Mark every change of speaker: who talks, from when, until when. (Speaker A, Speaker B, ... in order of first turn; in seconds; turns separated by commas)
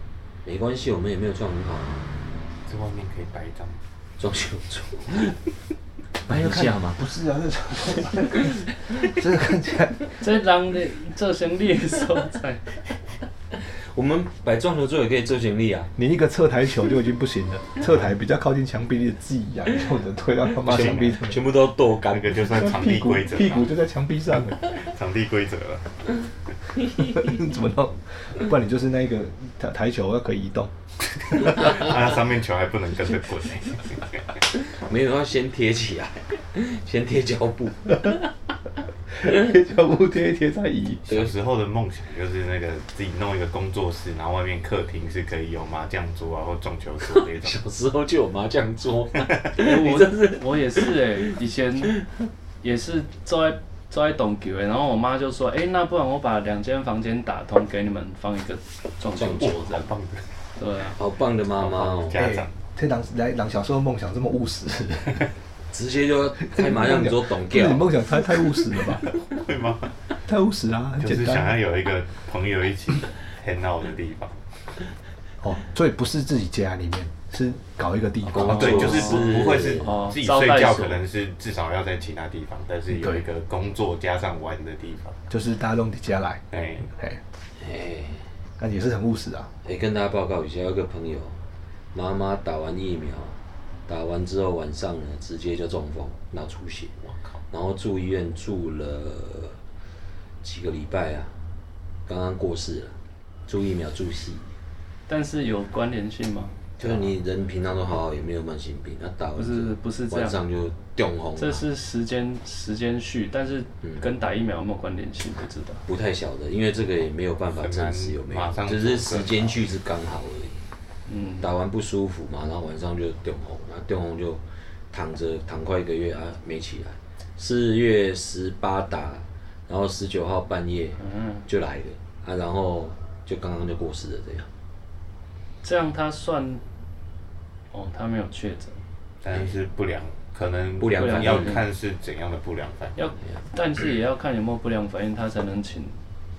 Speaker A: 0.4-2.1, Speaker B: 2.7-3.8, Speaker A: 4.2-5.4, Speaker A: 6.2-7.0, Speaker C: 6.3-10.1, Speaker D: 10.2-12.6, Speaker A: 13.5-15.9, Speaker C: 16.0-21.4, Speaker A: 20.6-22.5, Speaker B: 20.6-21.2, Speaker B: 22.1-23.7, Speaker C: 22.4-24.6, Speaker B: 24.6-25.9, Speaker A: 26.9-27.3, Speaker C: 27.0-30.7, Speaker C: 31.3-31.8, Speaker B: 31.3-34.3, Speaker A: 34.5-38.3, Speaker C: 39.1-41.2, Speaker B: 41.0-47.6, Speaker A: 47.1-51.3, Speaker D: 49.5-52.0, Speaker D: 52.6-59.9, Speaker A: 59.1-59.5, Speaker B: 59.2-60.2, Speaker D: 60.6-61.0, Speaker A: 61.0-62.2, Speaker B: 61.6-62.5, Speaker C: 62.1-65.3, Speaker A: 65.7-67.9, Speaker C: 66.4-69.1, Speaker B: 69.3-69.9, Speaker C: 70.3-71.6, Speaker B: 71.0-74.3, Speaker C: 75.4-79.1, Speaker A: 78.2-79.9, Speaker B: 78.3-85.2, Speaker D: 78.8-81.0, Speaker C: 82.9-83.2, Speaker C: 85.3-87.2, Speaker B: 86.5-86.9, Speaker A: 87.6-88.2, Speaker C: 88.6-89.5, Speaker A: 89.6-91.4, Speaker A: 91.9-93.3, Speaker A: 93.9-96.9, Speaker B: 97.0-97.3, Speaker A: 97.5-99.6, Speaker A: 100.4-101.3, Speaker A: 102.1-103.0, Speaker A: 103.5-104.5, Speaker D: 105.1-106.5, Speaker A: 106.8-111.6, Speaker D: 109.3-110.4, Speaker D: 111.3-115.8, Speaker A: 115.9-120.6, Speaker B: 117.5-119.6, Speaker D: 121.1-121.5, Speaker A: 121.4-134.5, Speaker D: 131.0-131.4, Speaker D: 135.6-136.6, Speaker D: 137.7-138.8, Speaker B: 139.2-143.0, Speaker A: 140.8-141.6, Speaker D: 141.0-141.6, Speaker D: 143.0-145.9